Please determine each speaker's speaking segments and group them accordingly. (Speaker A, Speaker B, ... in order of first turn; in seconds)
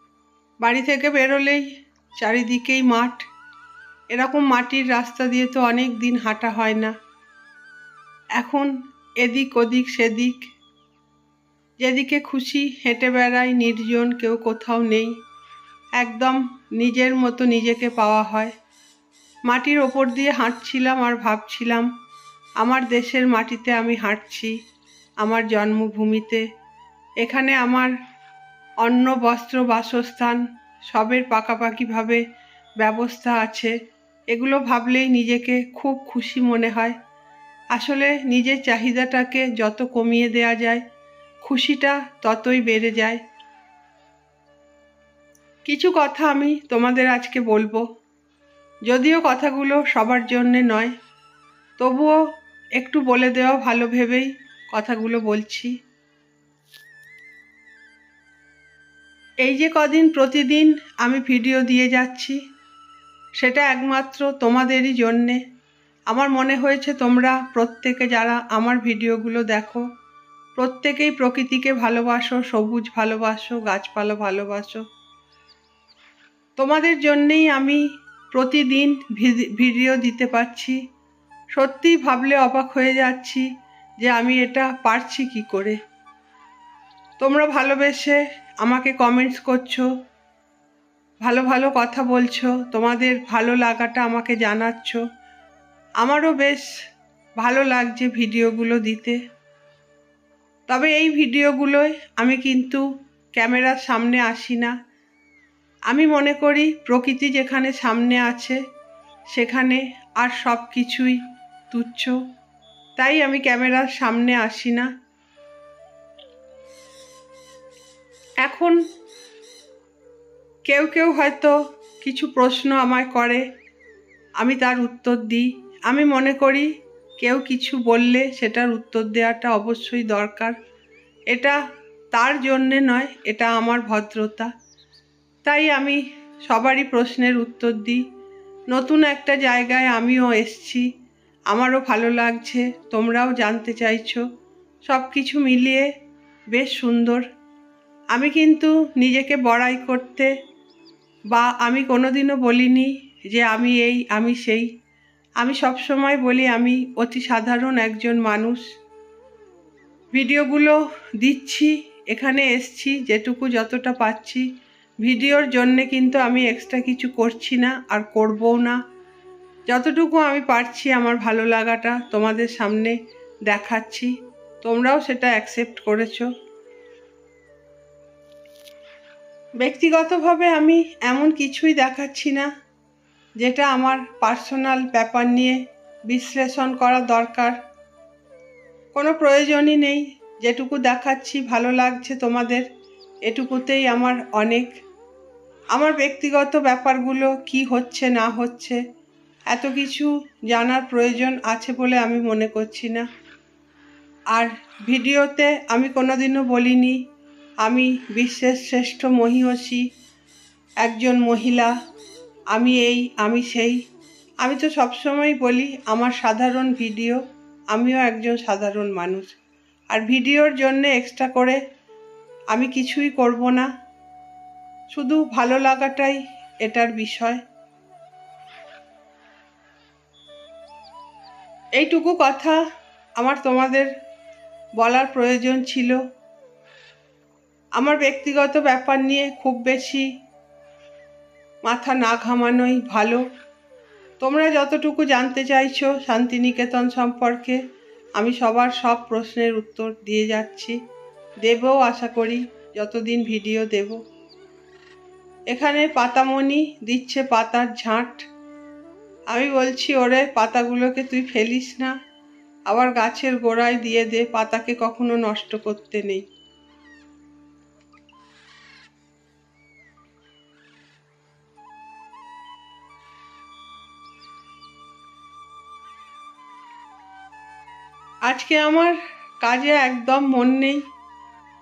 Speaker A: 0.6-3.3, 4.1-6.9, 8.4-10.5, 11.8-15.1, 16.0-18.5, 19.5-21.9, 22.6-24.6, 25.2-26.4, 27.2-27.9, 28.8-32.2, 32.8-33.7, 34.3-37.0, 37.7-40.8, 41.4-43.2, 45.6-47.9, 48.9-50.9, 51.8-52.2, 52.8-55.7, 59.4-62.4, 63.4-65.4, 66.1-69.8, 70.5-74.8, 76.6-80.8, 81.5-83.5, 84.0-85.8, 87.2-89.9, 91.2-95.0, 96.0-96.7, 97.4-99.2, 100.7-102.8, 103.3-104.7, 105.9-108.6, 109.3-112.2, 113.0-114.9, 118.4-118.8, 120.7-123.4, 124.4-130.5, 131.3-131.6, 132.1-134.5, 135.4-138.0, 138.7-140.9, 141.5-144.2, 144.8-145.9, 146.5-147.2, 148.1-150.3, 151.3-154.7, 155.4-158.6, 160.1-164.5, 165.0-168.8, 169.7-172.9, 173.5-176.3, 179.6-182.5, 183.4-187.6, 188.9-192.7, 193.2-194.7, 195.7-198.8, 199.5-203.1, 204.3-207.0, 207.6-209.8, 210.8-211.7, 212.5-213.8, 214.4-219.3, 219.9-221.6, 222.5-223.7, 224.9-227.4, 231.8-232.6, 233.2-233.9, 234.8-236.0, 237.8-240.1, 241.6-243.2, 244.2-247.6, 248.2-250.8, 251.4-254.0, 255.5-258.2, 259.3-261.9, 262.7-266.2, 278.3-280.8